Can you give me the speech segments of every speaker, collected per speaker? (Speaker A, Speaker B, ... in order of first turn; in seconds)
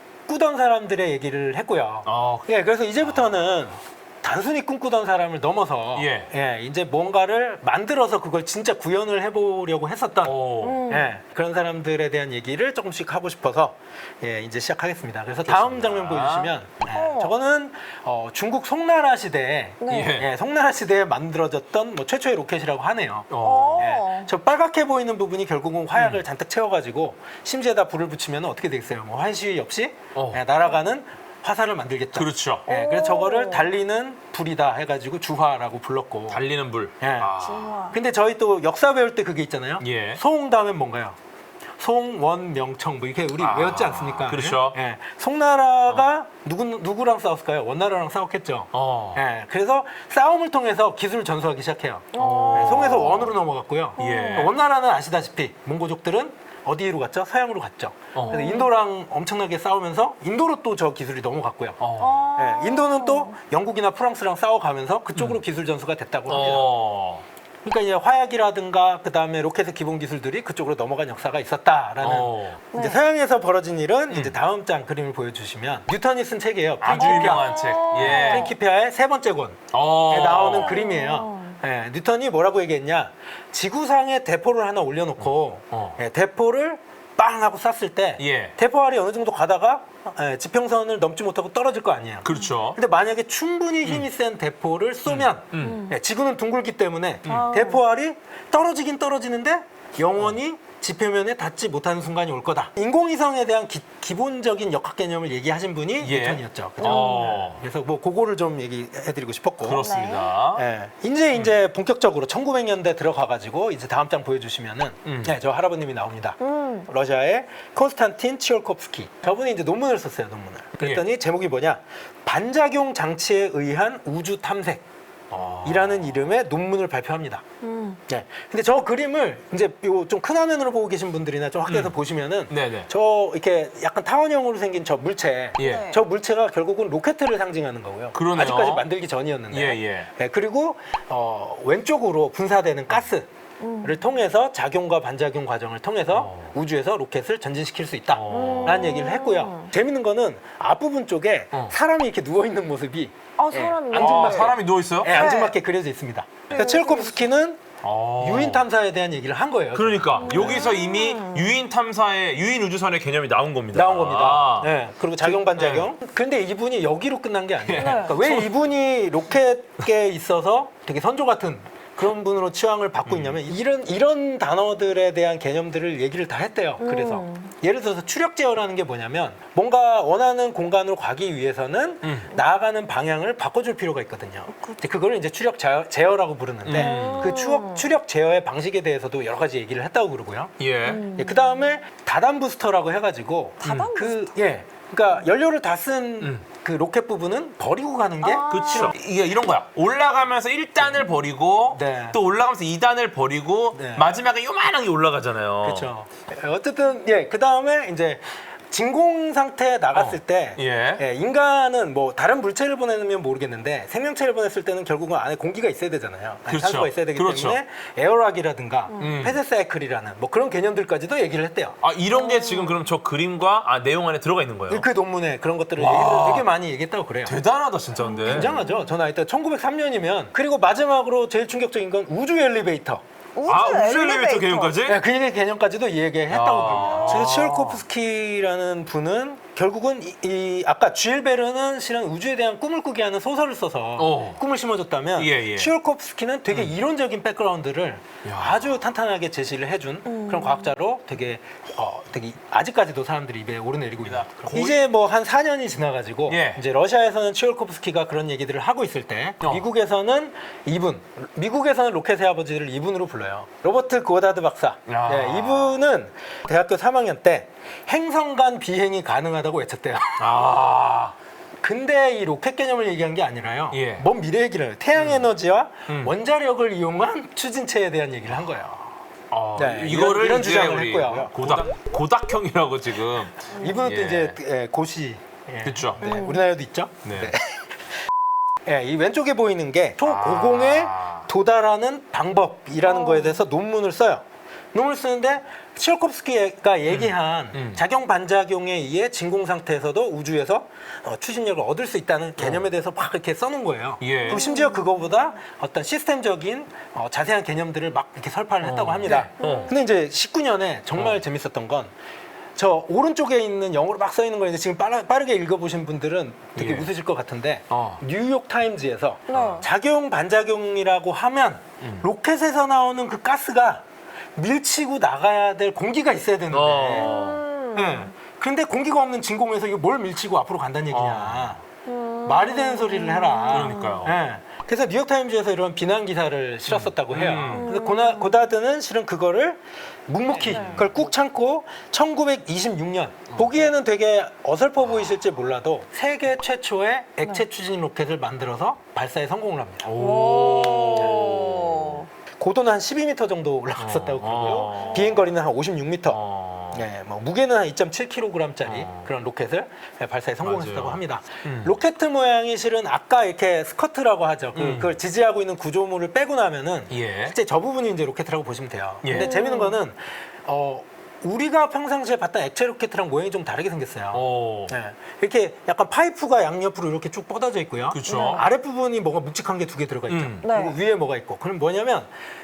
Speaker A: 0.3-10.3, 10.9-36.4, 37.0-37.4, 37.9-41.2, 41.8-61.8, 62.4-66.7, 67.6-109.8, 110.5-124.8, 125.6-127.4, 128.1-143.3, 143.8-157.6, 158.2-160.7, 163.7-198.9, 201.7-202.2, 203.7-204.1, 205.6-221.8, 224.7-227.4, 228.2-233.0, 234.8-270.5, 271.6-278.9, 279.6-281.7, 283.5-287.7, 288.6-294.2, 294.7-311.9, 312.6-323.8, 324.4-327.1, 327.7-331.6, 332.2-349.9, 350.9-351.5, 352.4-356.2, 356.7-382.1
Speaker B: 2.0-2.5, 5.9-6.3, 10.2-10.8, 15.4-16.5, 19.9-20.3, 23.3-23.8, 25.9-26.2, 30.1-30.4, 32.1-32.6, 36.3-37.8, 39.8-40.2, 43.4-44.8, 48.7-49.2, 52.2-53.3, 54.0-54.5, 58.1-58.6, 61.8-62.2, 66.3-67.2, 72.0-72.6, 74.1-74.3, 76.8-78.5, 79.7-80.9, 85.2-86.0, 88.2-88.5, 92.2-92.8, 95.0-95.8, 106.0-107.6, 109.6-110.6, 115.0-115.3, 120.8-121.0, 125.3-126.3, 131.7-131.9, 132.5-132.9, 135.6-135.9, 138.1-138.9, 139.5-140.1, 146.1-146.5, 148.1-149.0, 153.9-155.3, 157.8-158.6, 159.7-165.9, 167.6-168.5, 173.1-173.4, 182.0-182.3, 186.6-187.3, 190.6-191.0, 193.6-193.9, 198.4-205.9, 209.9-211.0, 216.5-217.6, 219.0-219.4, 221.8-224.9, 225.8-226.5, 227.2-228.6, 233.4-235.0, 236.3-237.8, 244.0-244.4, 245.2-245.7, 248.2-248.7, 254.0-254.8, 256.3-256.6, 264.9-265.8, 270.2-271.1, 273.7-274.1, 274.9-275.3, 275.9-276.1, 279.3-284.4, 285.6-286.0, 287.0-287.3, 290.0-291.3, 296.9-297.8, 302.4-302.6, 304.0-304.4, 308.6-309.7, 316.5-316.9, 317.7-318.0, 319.3-319.6, 321.8-322.1, 326.5-327.4, 330.9-331.6, 333.5-334.2, 336.7-337.7, 340.3-340.9, 344.8-345.2, 349.8-352.0, 353.8-355.3, 356.1-356.9, 358.6-359.1, 360.4-361.8, 364.5-364.9, 366.9-367.4, 369.0-369.3, 374.1-374.7, 377.9-378.4, 380.1-380.4
Speaker C: 10.6-11.2, 16.9-17.3, 19.8-20.2, 23.4-24.3, 32.7-33.7, 37.4-38.0, 52.1-53.2, 54.0-54.5, 58.2-58.7, 62.0-63.3, 72.7-73.0, 76.9-78.5, 80.5-81.6, 95.6-96.0, 97.2-97.8, 106.8-107.2, 109.7-110.3, 116.4-116.9, 127.6-128.0, 135.6-136.0, 143.6-144.0, 148.3-149.7, 153.4-154.6, 155.1-155.6, 156.5-157.2, 160.2-161.6, 167.7-168.1, 176.8-177.5, 186.7-187.9, 190.8-191.8, 193.6-194.3, 198.2-198.9, 222.1-222.8, 228.0-228.9, 233.3-234.8, 250.1-250.7, 286.0-286.4, 292.8-293.4, 304.3-305.1, 309.1-309.7, 319.3-319.7, 326.9-328.1, 331.9-334.1, 337.4-338.5, 340.5-340.9, 349.9-352.1, 354.7-355.0, 369.1-369.8, 378.1-378.5, 380.4-380.8